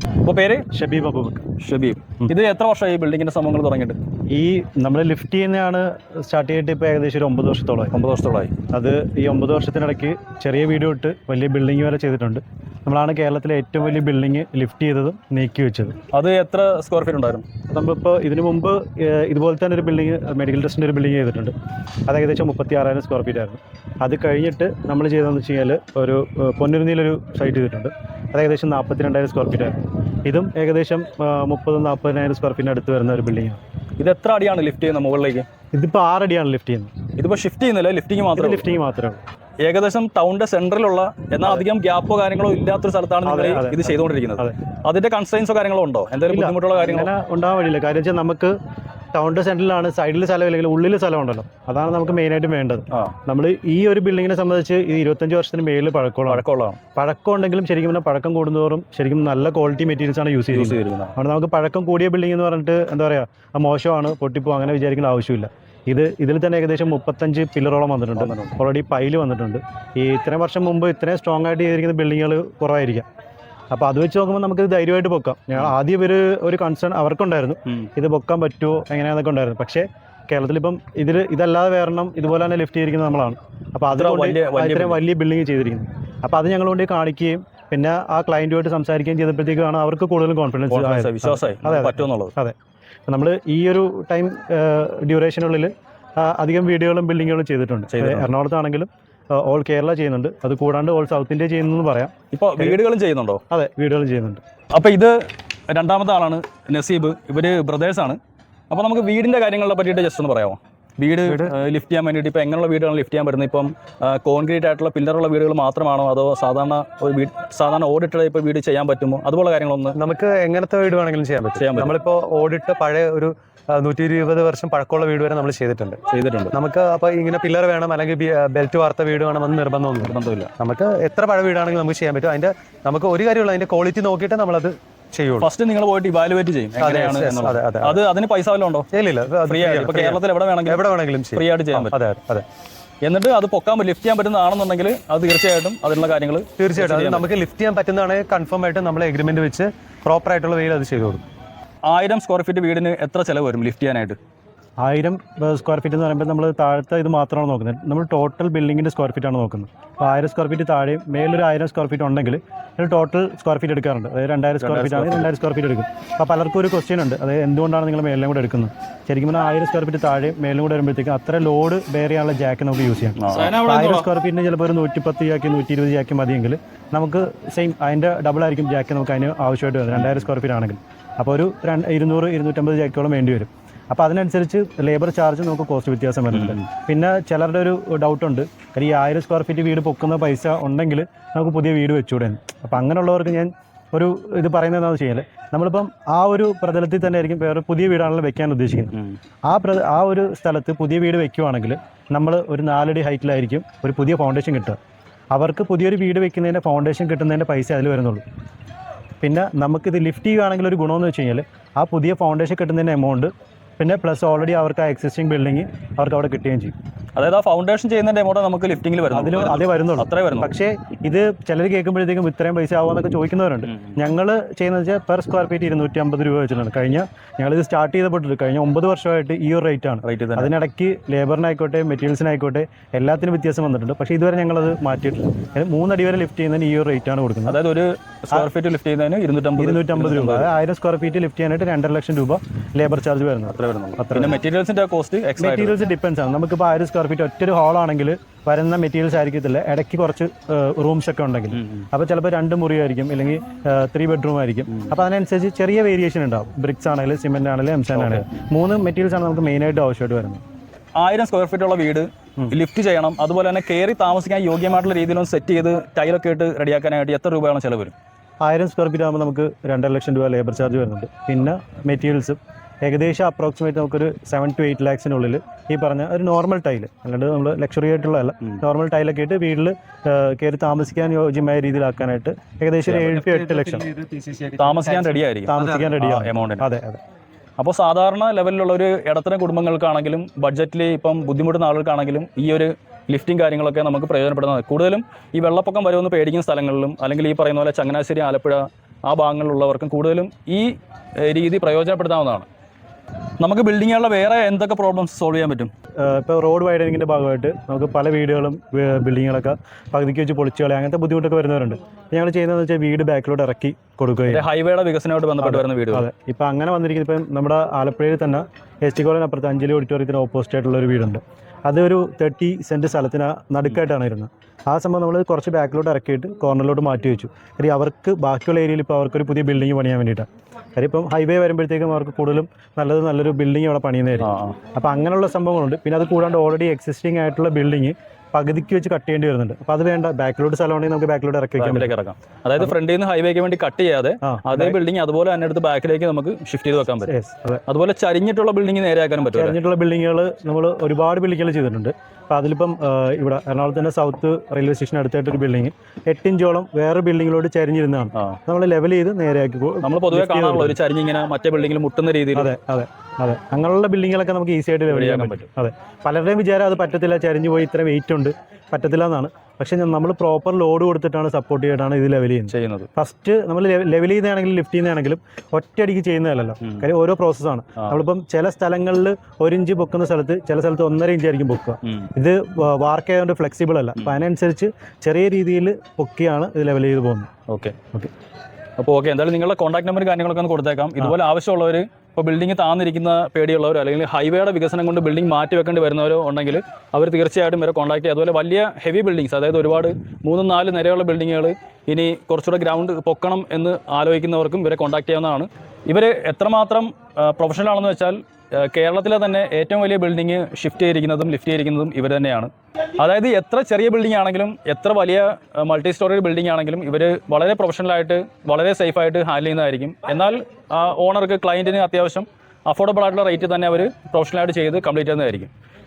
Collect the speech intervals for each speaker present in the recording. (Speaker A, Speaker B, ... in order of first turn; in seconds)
Speaker A: 0.2-0.7, 1.6-4.0, 7.9-8.6, 16.1-17.4, 34.0-35.5, 37.2-38.7, 39.6-47.1, 56.3-56.8, 60.5-61.1, 68.2-68.6, 83.9-85.0, 90.7-92.3, 97.9-98.3, 102.3-103.4, 104.7-105.2, 105.7-108.2, 108.7-120.0, 121.5-122.0, 126.1-126.5, 130.0-130.5, 135.4-138.9, 139.5-140.8, 141.3-142.0, 143.0-147.3, 151.9-154.2, 164.6-165.3, 173.2-174.1, 179.9-180.2, 186.3-186.6, 217.2-220.6, 223.7-223.9, 230.1-230.5, 237.5-240.5, 243.5-245.8, 251.5-251.9, 257.9-258.3, 261.0-267.9, 282.9-283.2, 284.6-286.7, 287.6-302.5, 303.4-305.7, 314.3-316.1, 334.2-334.6, 341.6-347.1, 347.7-349.6, 359.8-362.5, 364.9-365.5, 372.5-372.9, 387.5-387.8, 388.8-425.5
Speaker B: 0.7-1.5, 4.3-7.9, 8.7-15.9, 17.7-21.5, 22.1-33.6, 35.7-36.9, 38.4-39.2, 43.2-44.6, 46.3-48.5, 49.1-56.4, 57.0-73.1, 73.7-92.6, 93.1-102.8, 103.5-104.4, 154.8-199.0, 199.5-204.8, 205.3-208.2, 209.2-216.7, 219.1-237.6, 239.6-244.4, 245.4-260.4, 268.4-283.9, 285.4-287.0, 306.0-314.4, 315.4-341.9, 344.2-344.8, 347.1-347.6, 349.3-360.8, 362.3-387.3
Speaker C: 111.2-111.5, 120.0-126.0, 126.5-135.5, 136.8-138.0, 138.9-142.4, 146.6-151.3, 283.2-286.1